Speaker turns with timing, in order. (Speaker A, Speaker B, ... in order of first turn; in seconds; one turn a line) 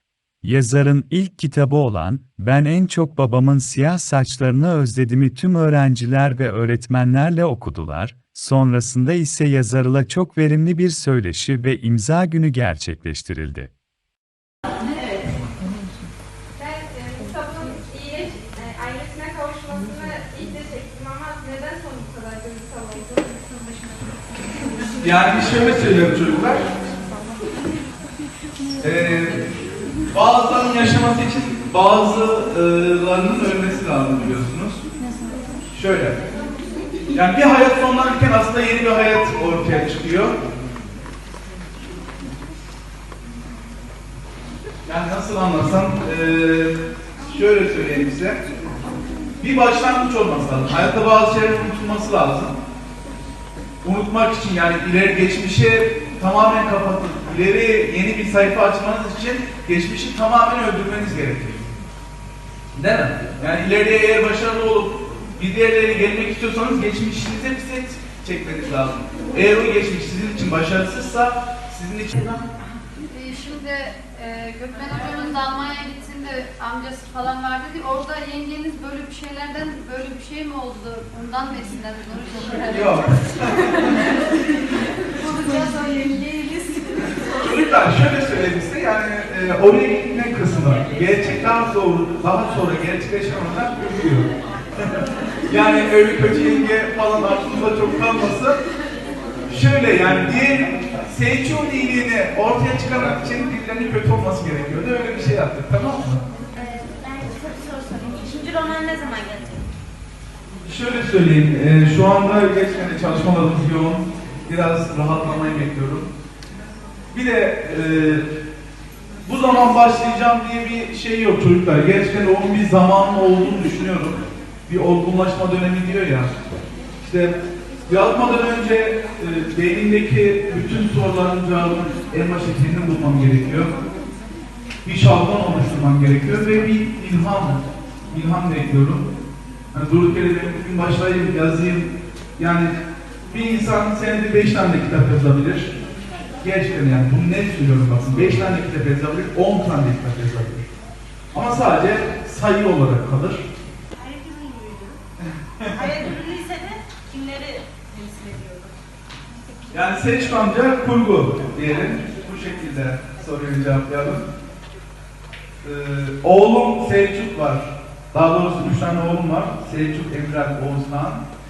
Speaker A: 0.4-13.7
Speaker B: 16.6-23.5
Speaker C: 25.0-26.6
Speaker C: 28.8-29.4
Speaker C: 30.1-34.8
Speaker C: 35.7-36.2
Speaker C: 37.1-40.3
Speaker C: 44.9-46.8
Speaker C: 47.3-48.4
Speaker C: 49.4-52.5
Speaker C: 53.8-61.7
Speaker C: 62.7-72.3
Speaker D: 73.1-87.4
Speaker C: 82.6-84.0
Speaker C: 87.4-94.3
Speaker C: 95.5-98.6
Speaker C: 99.5-106.2
Speaker E: 106.6-109.0
Speaker D: 106.6-109.6
Speaker C: 110.7-116.1
Speaker C: 117.1-118.2
Speaker C: 119.2-126.3
Speaker C: 127.0-127.3
Speaker C: 127.9-133.7
Speaker C: 134.8-139.1
Speaker C: 139.7-142.7
Speaker C: 143.3-145.7
Speaker C: 146.4-150.7
Speaker C: 151.3-153.4
Speaker E: 154.0-155.0
Speaker E: 155.7-158.7
Speaker C: 159.7-164.2
Speaker C: 165.6-171.2